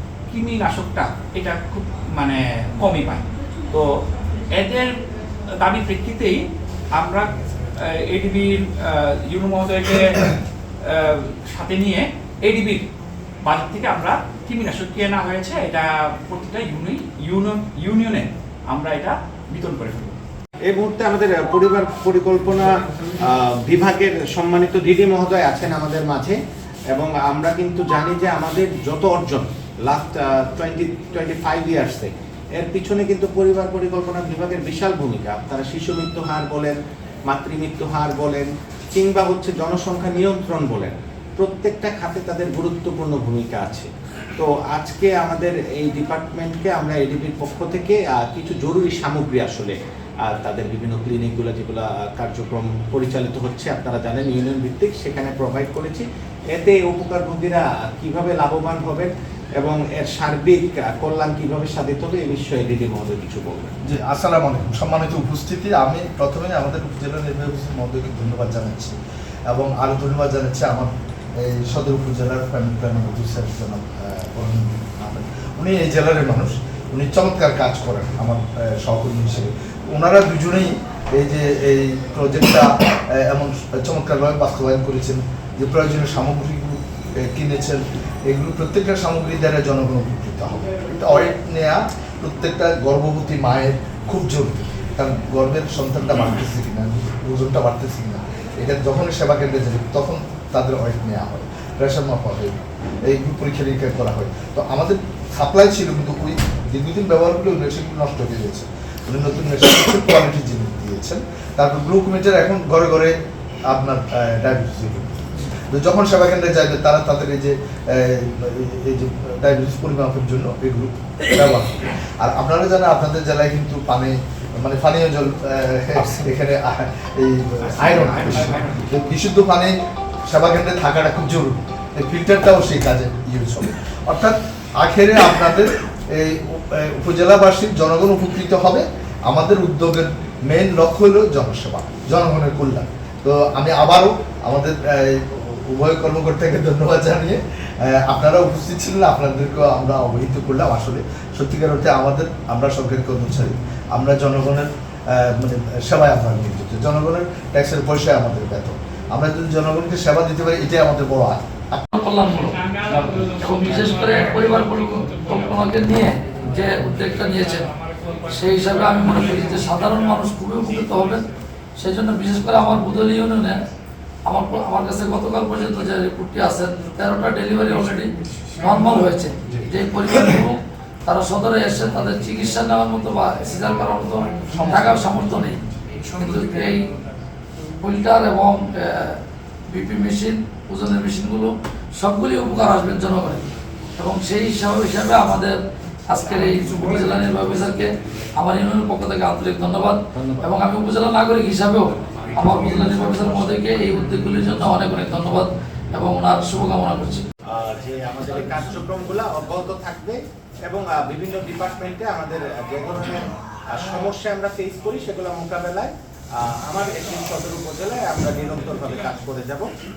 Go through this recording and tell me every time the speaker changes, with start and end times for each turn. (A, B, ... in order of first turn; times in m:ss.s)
0:00.3-0:03.9 A
0:04.5-0:04.9 A
0:05.6-0:06.4 A
0:07.0-0:07.3 A
0:07.9-0:10.3 A
0:10.8-0:12.8 A
0:13.4-0:20.2 A
0:20.7-0:26.4 B
0:26.9-0:36.8 B
0:37.3-0:49.7 B
0:50.3-1:03.7 B
1:03.8-1:08.9 C
1:09.5-1:10.9 C
1:11.4-1:53.1 C
1:53.7-2:09.7 C
2:07.6-2:08.8 A
2:10.3-2:41.8 C
2:41.9-2:47.7 D
2:48.3-2:51.2 D
2:51.8-2:53.6 D
2:54.2-3:05.6 D
3:04.5-3:04.8 C
3:06.1-3:06.9 D
3:07.8-3:13.4 D
3:14.0-3:15.6 D
3:16.1-3:27.2 D
3:27.5-3:39.7 B